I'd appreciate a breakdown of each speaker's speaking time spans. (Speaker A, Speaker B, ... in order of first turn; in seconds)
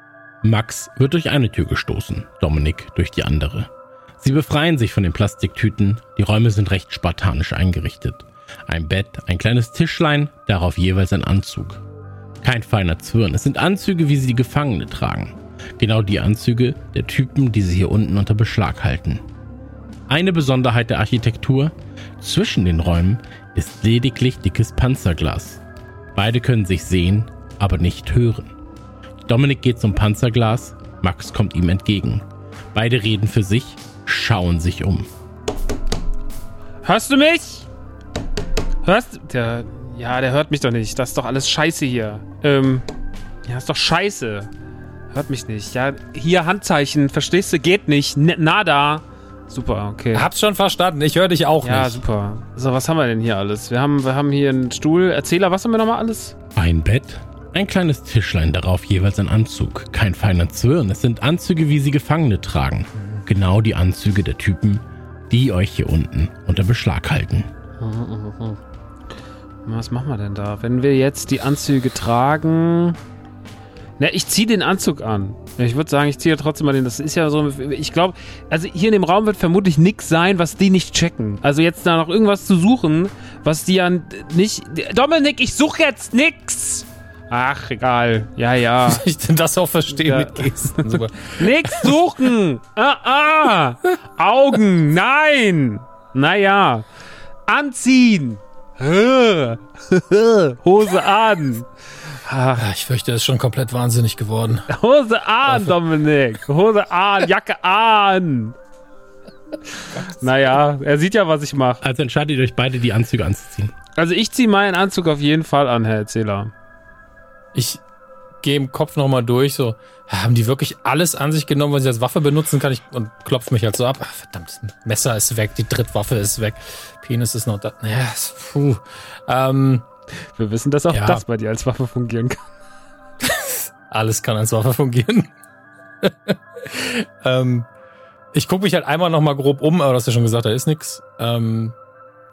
Speaker A: 0.4-11.8, 12.4-19.2, 20.1-25.6, 26.1-28.5, 29.2-35.1, 56.5-67.5, 111.8-113.7
Speaker B: 36.8-37.7, 38.8-42.8, 43.5-44.5, 45.1-50.3, 51.6-56.4, 67.8-68.6, 69.6-73.0, 74.0-89.0, 89.9-96.8, 97.5-101.7, 102.2-102.6, 104.7-108.5, 110.2-111.8, 114.0-116.5, 130.3-132.4
Speaker C: 50.1-52.0, 88.8-91.9, 102.5-104.7, 105.5-105.7, 110.0-110.2, 117.5-117.8, 118.4-129.8, 130.9-131.2, 133.3-135.3, 136.0-137.7, 138.3-141.7